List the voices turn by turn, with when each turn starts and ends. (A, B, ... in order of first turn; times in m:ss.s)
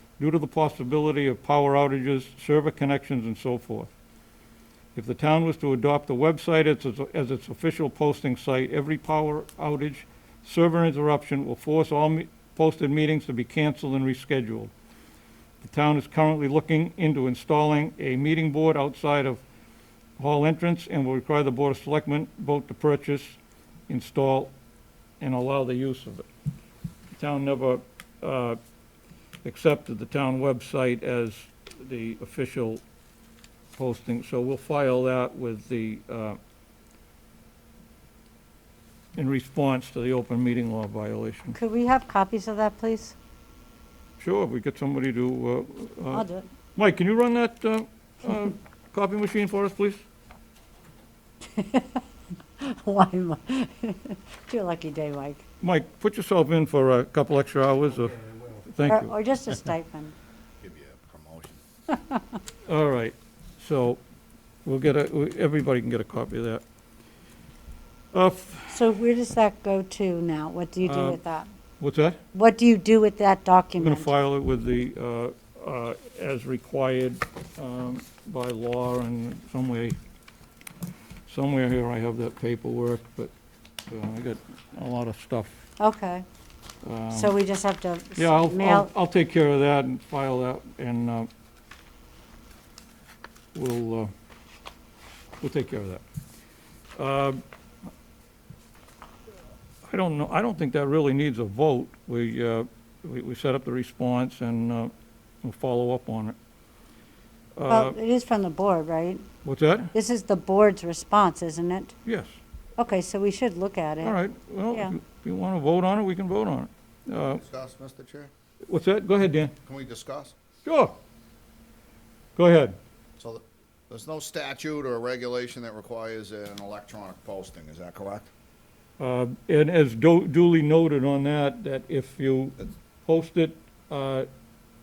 0:00.2-0:03.9 A
0:05.0-0:14.7 A
0:15.6-0:19.4 A
0:20.2-0:24.5 A
0:25.2-0:26.3 A
0:27.1-0:28.6 A
0:29.4-0:32.8 A
0:33.8-0:36.4 A
0:39.2-0:41.6 A
0:41.5-0:43.2 B
0:44.2-0:50.0 A
0:46.1-0:46.5 B
0:51.5-0:52.0 B
0:52.6-0:55.4 B
0:55.6-0:59.1 A
0:58.9-1:00.1 B
1:00.6-1:01.6 C
1:02.7-1:04.0 A
1:04.6-1:06.6 A
1:08.1-1:08.8 A
1:08.7-1:11.5 B
1:10.8-1:11.2 A
1:11.8-1:12.2 A
1:12.3-1:14.1 B
1:13.8-1:20.0 A
1:21.3-1:23.3 A
1:23.9-1:25.5 A
1:25.8-1:26.3 B
1:26.8-1:27.4 A
1:27.1-1:28.9 B
1:28.2-1:31.3 A
1:33.5-1:34.1 A
1:35.4-1:36.0 A
1:37.0-1:37.4 A
1:39.9-1:44.9 A
1:45.4-1:46.4 A
1:47.6-1:48.0 A
1:47.7-1:49.2 B
1:49.4-1:49.9 A
1:49.9-1:51.9 B
1:52.1-1:52.4 A
1:52.8-1:54.2 B
1:54.0-1:57.4 A
1:57.4-1:58.3 C
1:58.7-1:59.5 A
1:59.7-2:00.3 C
2:00.6-2:00.9 A
2:02.4-2:02.8 A
2:03.2-2:08.3 C
2:09.0-2:14.3 A